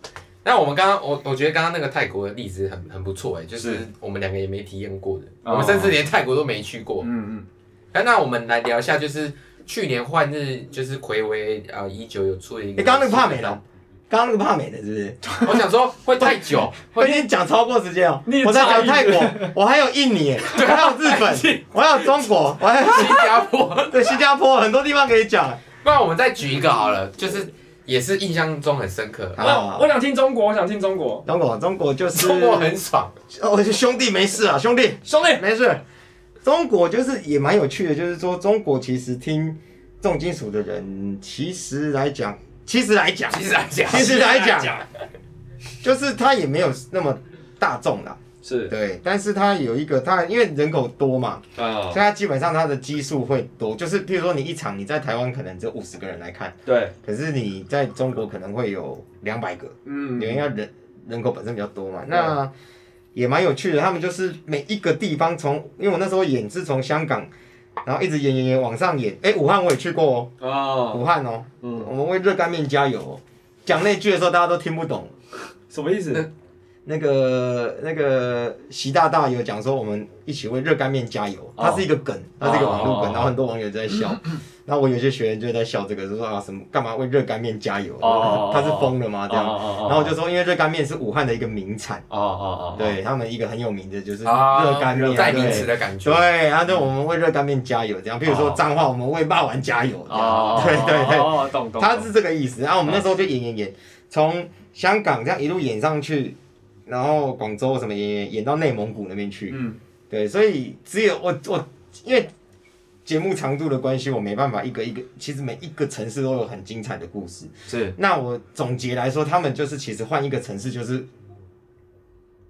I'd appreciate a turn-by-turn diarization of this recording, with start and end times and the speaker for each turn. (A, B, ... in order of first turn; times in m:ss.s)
0:00.4-0:07.1 A
0:03.6-0:03.8 B
0:05.4-0:05.9 B
0:07.0-0:07.4 B
0:07.9-0:13.6 A
0:12.8-0:15.4 C
0:15.4-0:17.2 A
0:16.9-0:25.6 C
0:18.2-0:19.5 B
0:20.6-0:21.2 B
0:20.7-0:21.5 A
0:22.8-0:24.1 A
0:25.8-0:29.5 A
0:29.4-0:29.9 C
0:29.4-0:31.2 B
0:31.2-0:32.7 C
0:32.1-0:33.1 A
0:33.3-0:35.8 C
0:35.0-0:35.4 B
0:36.4-0:44.8 C
0:43.3-0:44.6 A
0:43.9-0:44.8 B
0:45.8-1:02.5 C
0:48.4-0:48.7 B
0:51.6-0:52.0 B
0:56.6-0:56.9 B
0:59.8-1:00.5 B
1:03.1-1:07.3 C
1:07.8-1:10.3 C
1:10.4-1:11.0 B
1:10.9-1:15.1 C
1:11.6-1:11.9 B
1:15.7-1:16.3 B
1:16.8-1:32.0 C
1:21.6-1:21.9 B
1:22.4-1:23.3 B
1:28.0-1:30.2 B
1:32.1-1:32.9 B
1:32.7-1:52.3 C
1:34.2-1:36.3 A
1:35.2-1:35.6 B
1:38.2-1:38.6 B
1:40.1-1:42.1 B
1:49.5-1:49.8 B
1:53.0-2:01.1 C
1:57.7-1:58.0 B